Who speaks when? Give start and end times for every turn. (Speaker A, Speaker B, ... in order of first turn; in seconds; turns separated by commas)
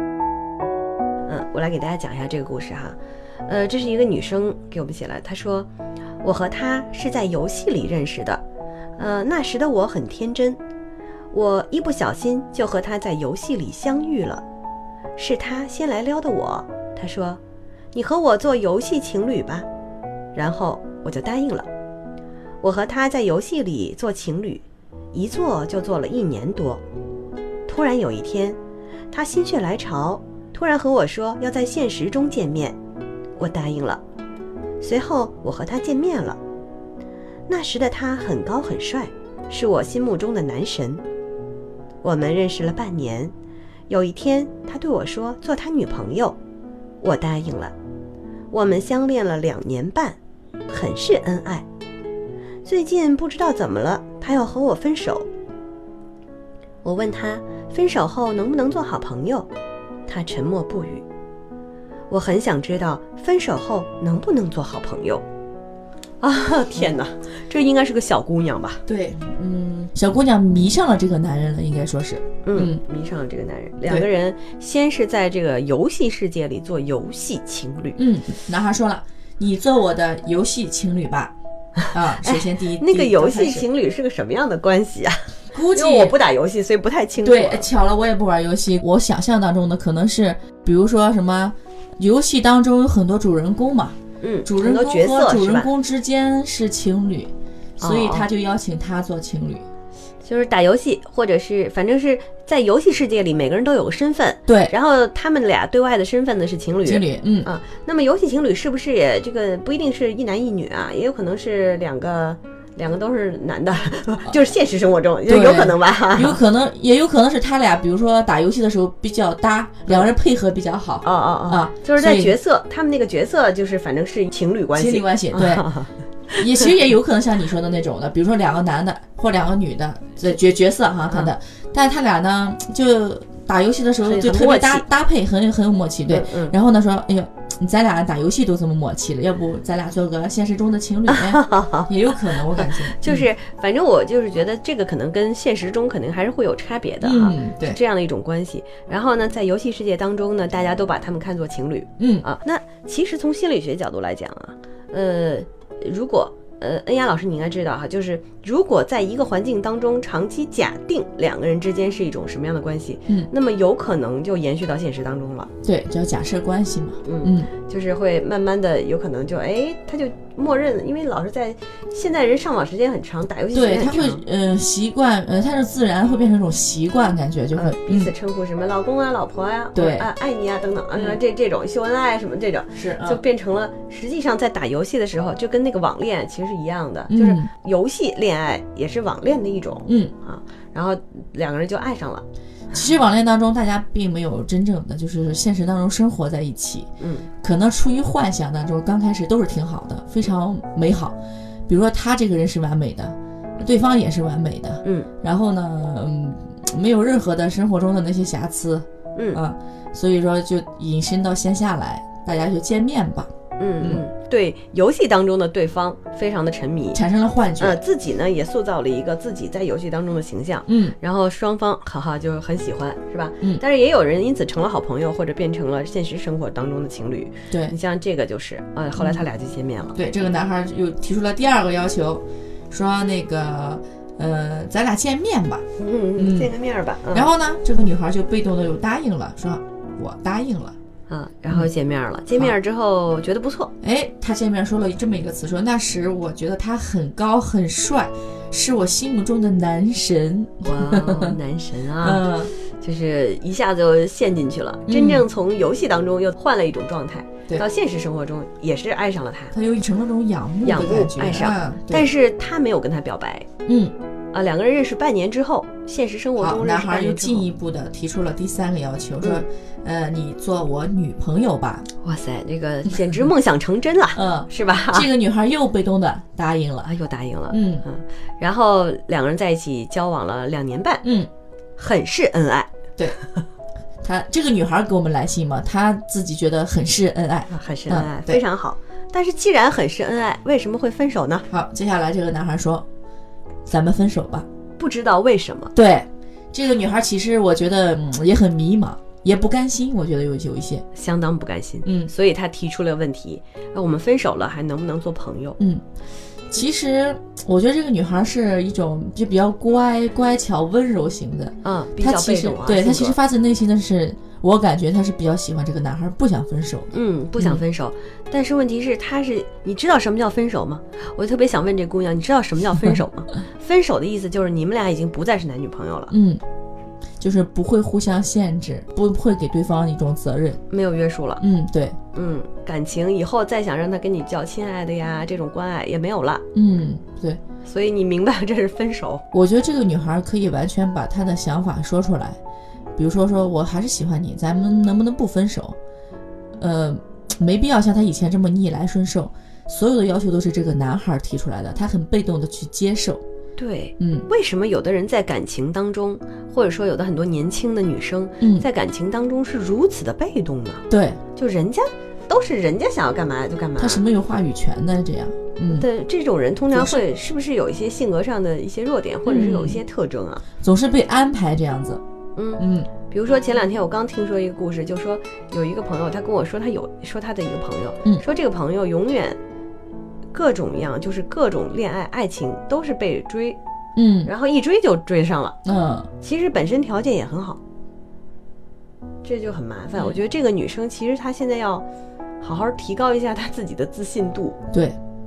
Speaker A: 1.3-5.7, Speaker A: 6.2-8.4, Speaker A: 9.0-10.6, Speaker A: 11.3-14.4, Speaker A: 15.2-17.4, Speaker A: 17.9-19.7, Speaker A: 20.3-21.7, Speaker A: 22.6-26.8, Speaker A: 27.7-28.6, Speaker A: 29.1-32.8, Speaker A: 33.4-34.0, Speaker A: 34.8-36.4, Speaker A: 37.5-41.0, Speaker A: 42.0-43.3, Speaker A: 43.9-46.4, Speaker A: 47.0-47.7, Speaker A: 48.5-50.2, Speaker A: 50.7-51.6, Speaker A: 52.6-55.3, Speaker A: 56.8-59.5, Speaker A: 60.1-61.0, Speaker A: 62.1-65.2, Speaker A: 66.2-68.8, Speaker B: 68.8-72.8, Speaker A: 72.4-78.0, Speaker B: 78.0-81.3, Speaker B: 81.9-83.7, Speaker A: 82.2-87.7, Speaker B: 85.5-86.1, Speaker B: 87.2-99.7, Speaker A: 94.2-95.7, Speaker A: 97.8-98.3, Speaker A: 100.2-116.4, Speaker B: 104.5-104.7, Speaker B: 106.8-107.5, Speaker B: 115.3-122.3, Speaker A: 121.0-126.4, Speaker B: 124.7-125.7, Speaker B: 126.3-143.2, Speaker A: 131.1-131.3, Speaker A: 134.0-134.8, Speaker A: 136.1-136.5, Speaker A: 141.1-165.5, Speaker B: 147.0-147.8, Speaker B: 152.0-152.2, Speaker B: 165.6-167.5, Speaker A: 167.0-174.2, Speaker B: 173.5-178.1, Speaker A: 177.5-192.2, Speaker B: 179.7-180.1, Speaker B: 182.7-183.2, Speaker B: 187.1-187.5, Speaker B: 189.9-190.1, Speaker B: 192.7-196.9, Speaker A: 197.0-197.3, Speaker B: 197.4-214.0, Speaker A: 204.8-205.1, Speaker A: 209.2-209.4, Speaker A: 213.6-217.0, Speaker B: 216.9-217.8, Speaker A: 217.6-230.0, Speaker B: 220.7-220.9, Speaker B: 227.5-227.7, Speaker B: 229.9-235.6, Speaker A: 235.8-237.3, Speaker B: 236.2-236.5, Speaker B: 237.1-240.7, Speaker A: 241.1-243.7, Speaker B: 243.8-251.3, Speaker A: 250.6-259.5, Speaker B: 252.0-252.5, Speaker B: 254.9-255.2, Speaker B: 259.5-262.1, Speaker A: 260.6-263.5, Speaker B: 263.6-263.9, Speaker A: 264.3-267.4, Speaker B: 266.4-271.9, Speaker A: 272.0-275.1, Speaker B: 274.1-276.9, Speaker A: 276.8-281.0, Speaker B: 277.5-277.8, Speaker B: 281.0-281.3, Speaker A: 281.8-282.7, Speaker B: 284.0-288.4, Speaker A: 287.5-291.4, Speaker B: 291.5-292.8, Speaker B: 293.6-294.4, Speaker A: 294.8-295.7, Speaker B: 295.7-300.8, Speaker A: 300.9-305.6, Speaker B: 301.8-302.1, Speaker B: 306.5-317.6, Speaker A: 311.6-313.2, Speaker A: 316.9-326.1, Speaker B: 326.1-326.4, Speaker B: 327.2-330.6, Speaker A: 330.7-331.4, Speaker B: 331.4-332.0, Speaker A: 332.1-336.4, Speaker B: 336.5-337.4, Speaker A: 337.6-339.2, Speaker B: 339.3-342.4, Speaker B: 342.9-345.8, Speaker B: 346.6-353.2, Speaker A: 353.6-360.8, Speaker B: 354.0-354.3, Speaker B: 358.4-358.6, Speaker B: 360.9-361.2, Speaker A: 361.4-364.0, Speaker B: 363.8-365.9, Speaker A: 365.7-370.4, Speaker B: 366.7-367.0, Speaker B: 369.2-369.8, Speaker B: 370.6-372.0, Speaker A: 372.4-379.4, Speaker B: 372.6-372.9, Speaker A: 380.3-383.6, Speaker B: 383.9-384.3, Speaker A: 384.2-385.6, Speaker B: 385.6-386.1, Speaker A: 386.2-387.6, Speaker A: 389.2-391.8, Speaker A: 392.4-394.6, Speaker B: 394.7-394.9